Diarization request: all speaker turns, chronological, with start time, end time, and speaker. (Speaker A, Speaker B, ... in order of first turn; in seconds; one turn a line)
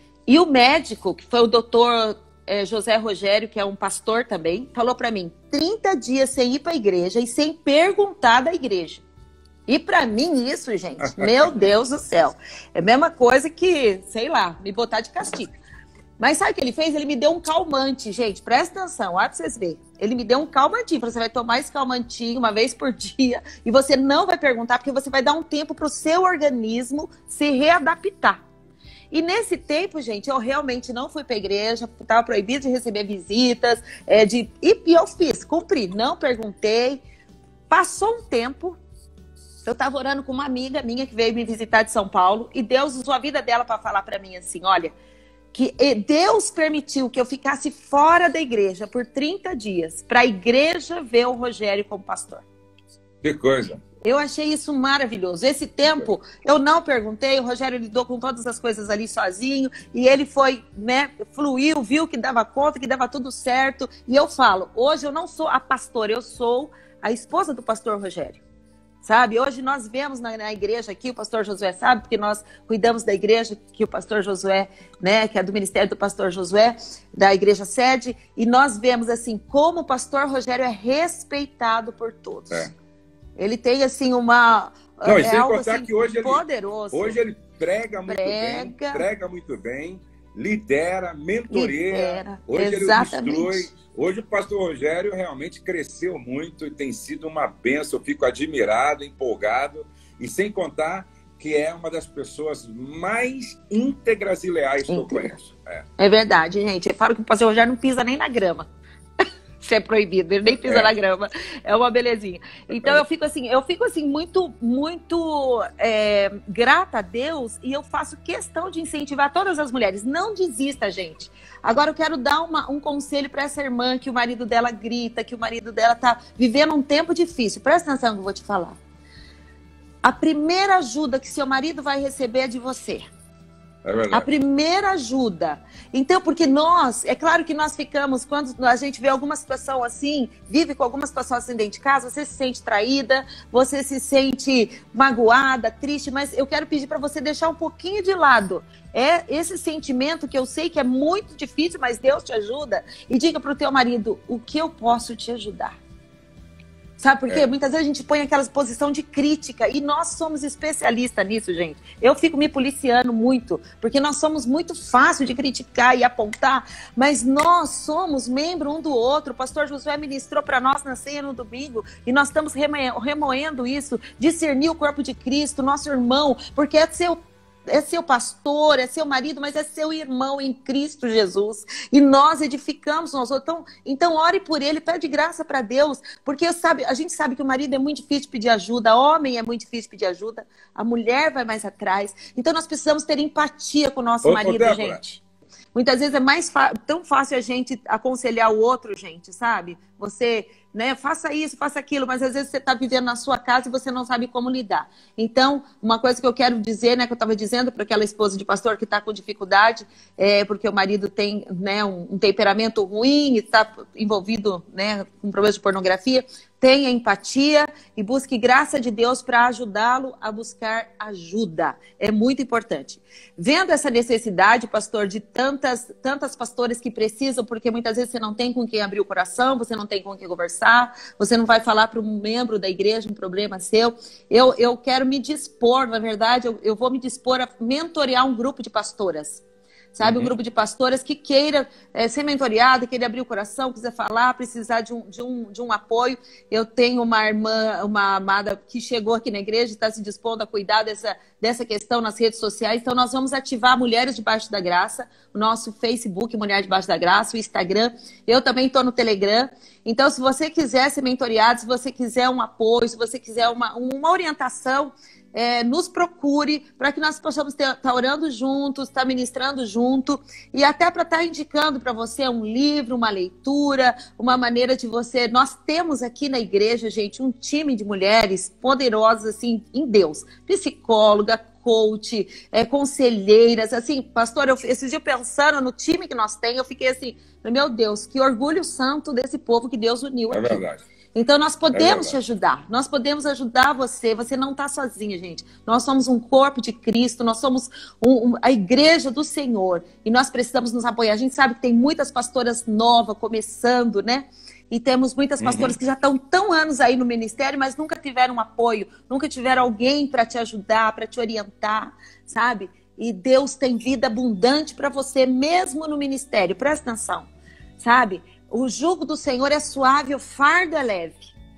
Speaker A: 0.3-9.0
Speaker A: 9.7-15.5
Speaker A: 16.2-28.4
Speaker A: 29.1-37.0
Speaker A: 37.7-38.8
Speaker A: 39.6-44.9
Speaker A: 45.5-52.4
Speaker B: 53.2-53.8
Speaker A: 54.0-68.4
Speaker A: 69.0-82.7
Speaker A: 83.4-87.2
Speaker B: 85.0-105.8
Speaker A: 88.1-89.0
Speaker A: 91.5-93.7
Speaker A: 104.9-105.3
Speaker A: 106.0-108.7
Speaker A: 109.6-128.8
Speaker A: 130.0-133.1
Speaker B: 133.8-134.3
Speaker A: 134.1-155.8
Speaker A: 157.0-177.2
Speaker A: 177.7-195.2
Speaker B: 194.2-195.0
Speaker A: 195.7-239.4
Speaker A: 239.9-290.6
Speaker B: 240.0-240.3
Speaker B: 290.3-290.8
Speaker A: 291.1-317.3
Speaker B: 291.7-292.2
Speaker B: 305.4-305.8
Speaker A: 317.8-321.3